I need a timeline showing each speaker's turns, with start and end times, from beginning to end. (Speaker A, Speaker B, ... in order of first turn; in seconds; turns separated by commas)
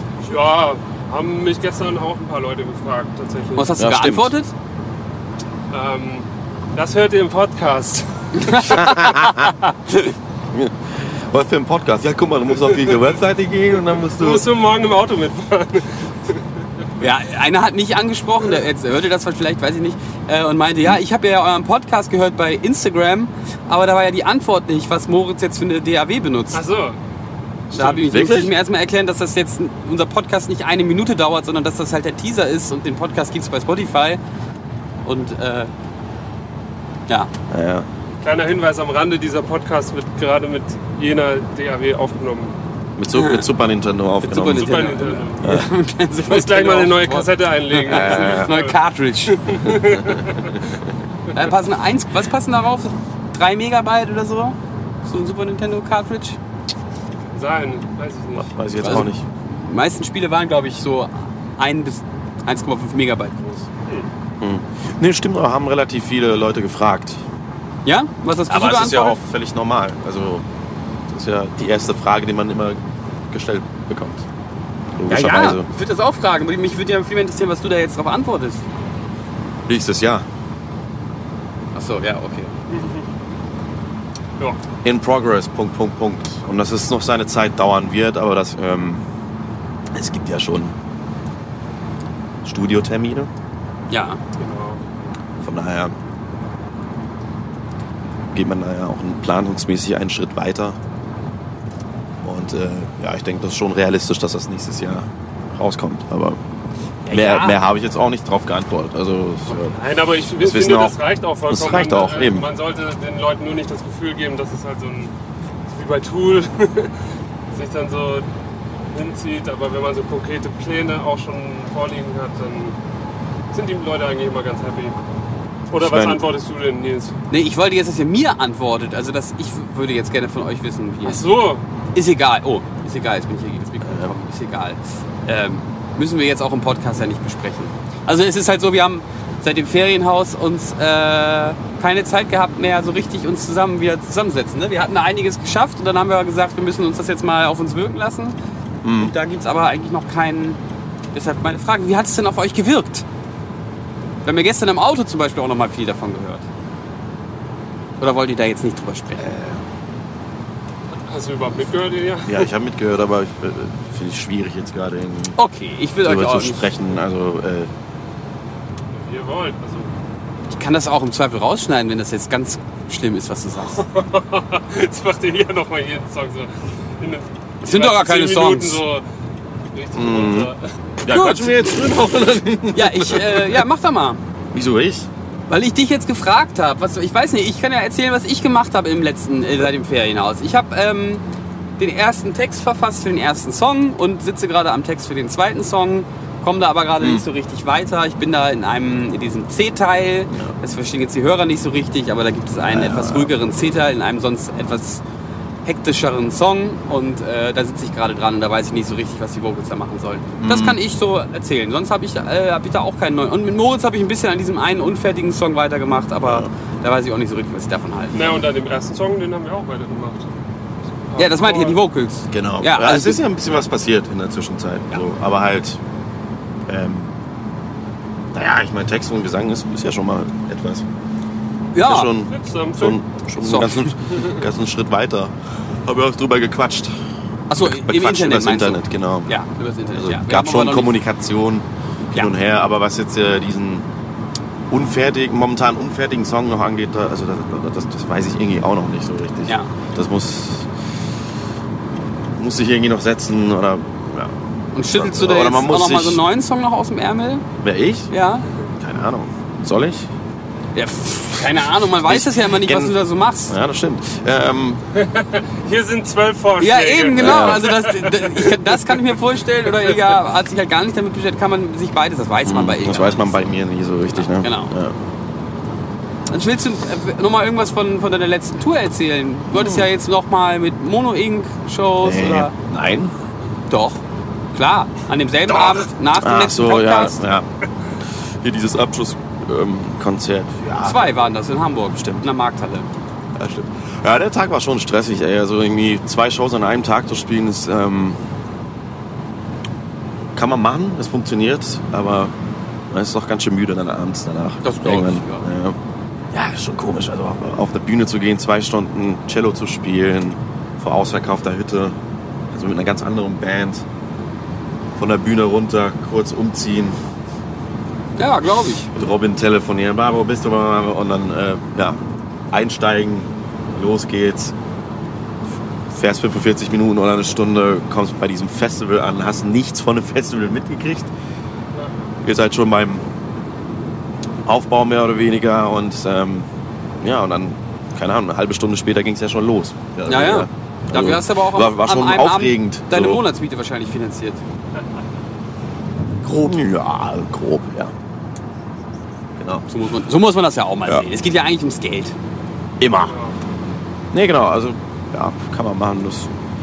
Speaker A: 0.2-3.7, Speaker B: 3.6-4.5, Speaker C: 3.8-4.3, Speaker A: 5.7-9.0, Speaker B: 8.3-10.2, Speaker C: 8.8-9.5, Speaker C: 10.5-14.5, Speaker A: 14.2-16.4, Speaker B: 17.0-26.6, Speaker A: 26.5-27.0, Speaker A: 27.7-28.1, Speaker B: 27.7-34.2, Speaker C: 28.1-28.5, Speaker B: 35.0-35.7, Speaker C: 37.5-37.9, Speaker A: 38.2-42.5, Speaker C: 43.0-44.7, Speaker B: 43.1-43.4, Speaker B: 44.2-49.5, Speaker A: 44.5-45.4, Speaker C: 45.4-45.7, Speaker A: 46.3-48.8, Speaker C: 47.9-48.5, Speaker A: 49.3-50.6, Speaker C: 49.8-50.2, Speaker B: 51.3-56.4, Speaker A: 57.3-58.5, Speaker C: 58.4-59.2, Speaker B: 58.8-63.7, Speaker C: 64.4-67.2, Speaker B: 67.8-69.2, Speaker C: 68.5-70.5, Speaker C: 71.1-74.2, Speaker C: 75.0-75.7, Speaker B: 75.1-78.6, Speaker C: 79.7-80.2, Speaker B: 81.8-82.5, Speaker A: 82.7-83.0, Speaker C: 84.8-89.0, Speaker C: 89.9-90.8, Speaker C: 92.4-93.3, Speaker B: 93.9-94.2, Speaker A: 94.4-94.8, Speaker C: 95.4-96.0, Speaker C: 98.3-100.8, Speaker C: 102.2-106.4, Speaker B: 107.0-107.6, Speaker C: 107.1-109.8, Speaker A: 109.7-115.1, Speaker C: 110.3-112.5, Speaker A: 115.7-117.0, Speaker A: 117.5-118.3, Speaker A: 118.9-122.8, Speaker A: 123.5-125.0, Speaker A: 125.7-127.2, Speaker C: 125.7-126.2, Speaker B: 127.3-131.2, Speaker A: 131.1-131.6, Speaker B: 131.9-148.3, Speaker C: 133.8-134.1, Speaker C: 148.8-149.1, Speaker B: 148.9-150.6, Speaker B: 151.1-153.0, Speaker B: 154.2-156.4, Speaker B: 158.0-159.3, Speaker C: 159.2-159.6, Speaker A: 161.1-162.5, Speaker C: 162.3-165.4, Speaker B: 165.4-166.7, Speaker C: 166.0-167.7, Speaker A: 168.9-169.9, Speaker B: 170.5-173.8, Speaker A: 173.7-179.0, Speaker B: 177.6-178.8, Speaker A: 179.7-180.7, Speaker C: 179.9-183.6, Speaker B: 181.1-181.7, Speaker B: 182.7-184.2, Speaker C: 184.5-185.1, Speaker B: 185.5-191.2, Speaker B: 191.8-205.0, Speaker C: 197.0-197.3, Speaker C: 202.7-203.3, Speaker B: 205.7-218.4, Speaker C: 210.4-210.8, Speaker A: 218.1-220.3, Speaker A: 221.1-221.8, Speaker B: 221.2-223.2, Speaker C: 222.3-225.8, Speaker C: 226.7-227.1, Speaker C: 228.3-230.8, Speaker B: 231.7-232.1, Speaker C: 231.8-236.9, Speaker A: 232.3-233.0, Speaker B: 233.4-233.9, Speaker A: 234.1-234.4, Speaker B: 237.5-240.9, Speaker C: 237.6-239.4, Speaker C: 239.9-243.9, Speaker C: 244.7-250.8, Speaker C: 252.4-254.4, Speaker B: 254.7-257.4, Speaker C: 254.9-256.2, Speaker C: 257.6-258.1, Speaker B: 258.1-258.5, Speaker C: 258.8-260.1, Speaker B: 260.8-263.6, Speaker C: 261.4-263.0, Speaker C: 263.5-264.8, Speaker A: 264.9-269.0, Speaker B: 266.6-273.4, Speaker C: 267.2-267.7, Speaker C: 272.5-275.0, Speaker B: 274.1-274.7, Speaker B: 276.3-282.5, Speaker C: 279.5-279.9, Speaker C: 282.0-283.1, Speaker B: 283.7-284.0, Speaker B: 284.5-287.2, Speaker C: 286.2-287.5, Speaker C: 288.0-291.2, Speaker B: 290.8-292.9, Speaker C: 291.9-292.3, Speaker C: 293.4-298.2, Speaker C: 300.4-302.3, Speaker C: 302.9-305.8, Speaker B: 304.6-305.5, Speaker C: 306.3-312.0, Speaker C: 312.5-313.9, Speaker C: 315.0-317.0, Speaker B: 318.2-318.9, Speaker C: 318.9-322.0, Speaker C: 322.5-324.5, Speaker C: 325.9-331.1, Speaker C: 332.2-333.1, Speaker C: 334.4-336.5, Speaker C: 337.0-343.2, Speaker B: 340.1-344.4, Speaker C: 346.2-347.9, Speaker C: 349.4-349.7, Speaker B: 349.7-352.1, Speaker C: 352.8-353.2, Speaker A: 353.1-353.4, Speaker C: 354.1-356.3